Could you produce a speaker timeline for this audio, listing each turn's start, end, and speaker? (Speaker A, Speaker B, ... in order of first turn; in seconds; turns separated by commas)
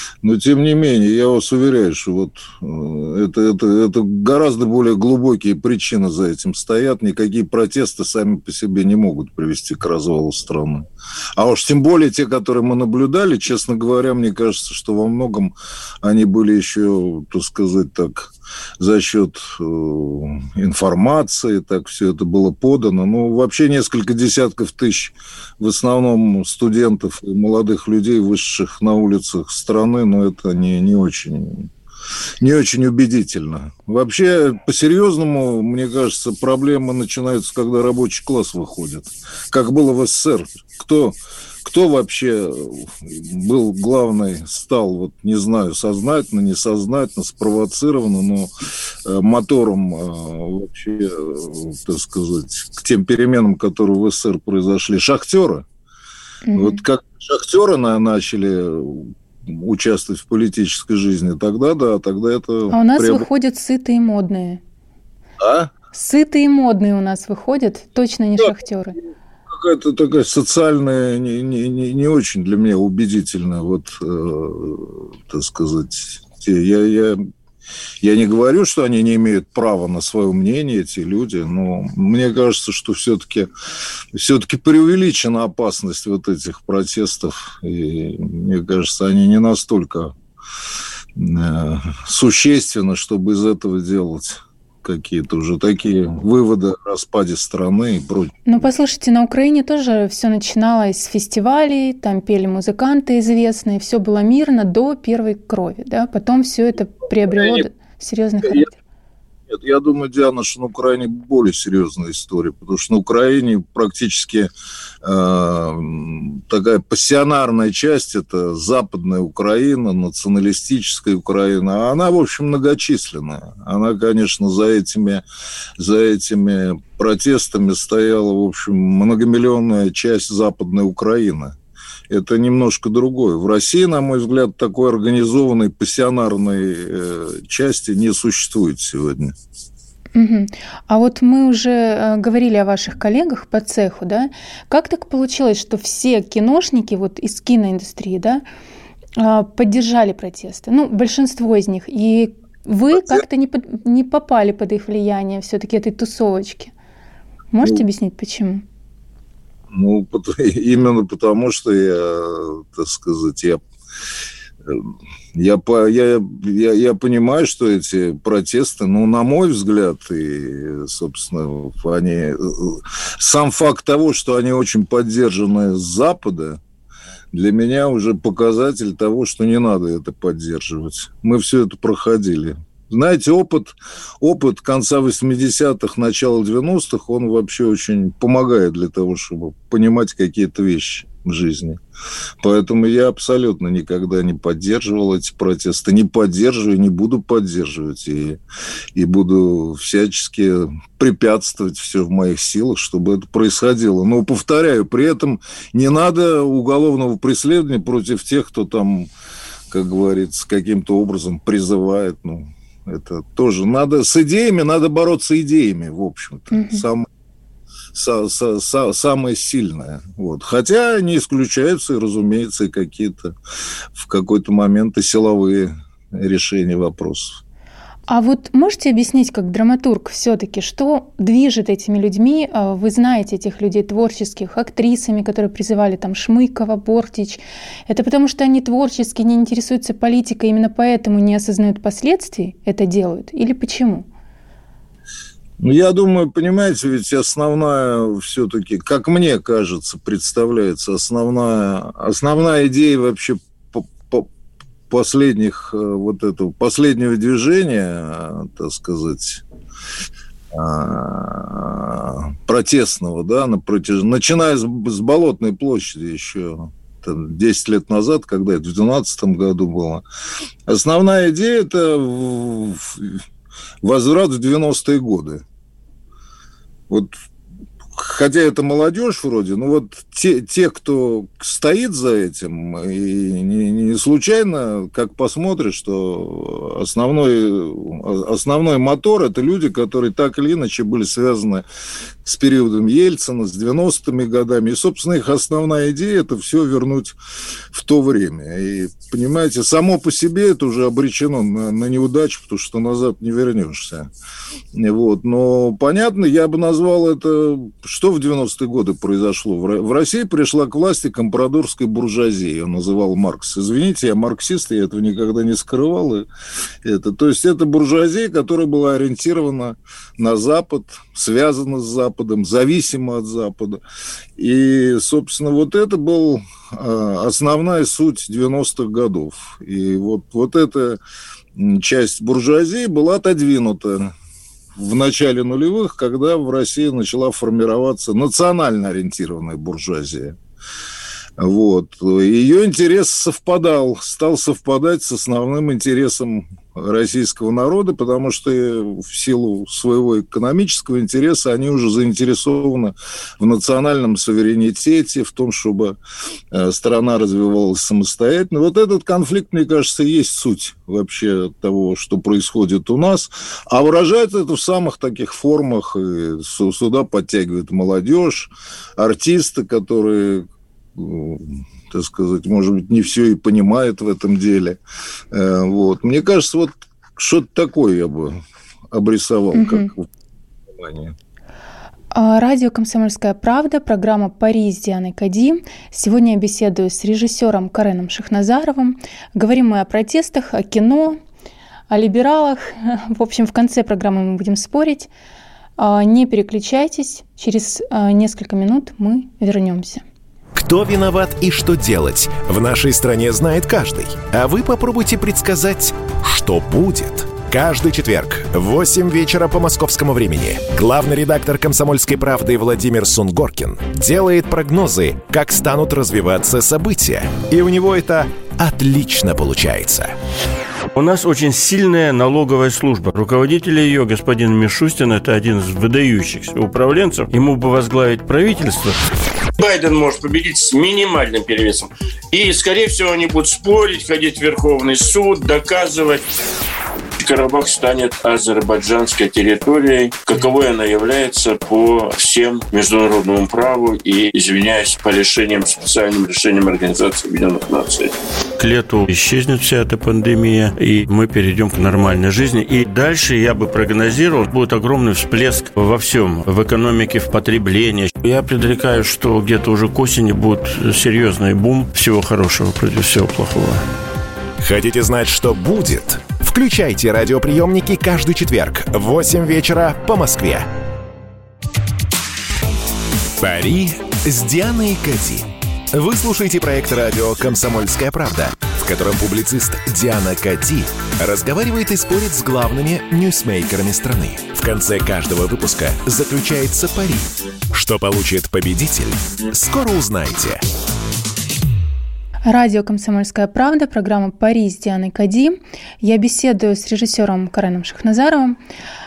Speaker A: 0.2-10.8, Speaker A: 11.4-31.7, Speaker A: 32.4-55.6, Speaker B: 56.4-56.8, Speaker A: 56.5-63.2, Speaker B: 62.7-64.6, Speaker A: 65.4-65.7, Speaker B: 65.9-69.0, Speaker A: 69.5-77.2, Speaker A: 78.0-83.5, Speaker A: 84.1-90.1, Speaker A: 91.1-98.6, Speaker B: 98.5-108.8, Speaker A: 107.3-107.6, Speaker A: 109.5-114.5, Speaker A: 115.0-125.2, Speaker A: 125.8-131.5, Speaker A: 132.1-139.3, Speaker B: 140.1-148.4, Speaker B: 149.2-156.7, Speaker A: 152.9-153.2, Speaker B: 157.5-158.6, Speaker A: 159.7-163.6, Speaker A: 164.7-176.6, Speaker A: 177.3-191.8, Speaker A: 192.4-198.4, Speaker A: 198.9-209.1, Speaker A: 209.7-217.1, Speaker B: 216.5-216.8, Speaker A: 217.9-223.3, Speaker A: 223.9-227.4, Speaker B: 228.1-244.1, Speaker A: 245.6-254.3, Speaker A: 254.9-259.4, Speaker A: 260.5-270.0, Speaker A: 270.6-273.2, Speaker A: 273.8-275.4, Speaker A: 277.9-291.6, Speaker A: 292.2-297.2, Speaker A: 297.7-304.1, Speaker A: 304.7-316.3, Speaker A: 316.8-323.8, Speaker A: 324.4-331.0, Speaker A: 331.5-334.1, Speaker A: 334.8-340.4, Speaker A: 341.4-356.0, Speaker A: 356.5-374.8, Speaker A: 375.3-378.4, Speaker A: 378.9-380.1, Speaker B: 379.5-379.9, Speaker A: 380.7-381.1, Speaker B: 382.1-391.2, Speaker B: 391.9-395.1, Speaker B: 395.8-400.0, Speaker C: 400.5-420.1, Speaker D: 420.9-429.0, Speaker E: 429.6-436.3, Speaker E: 437.2-448.1, Speaker D: 448.6-463.8, Speaker C: 464.6-470.7, Speaker C: 473.4-490.6, Speaker B: 492.4-498.6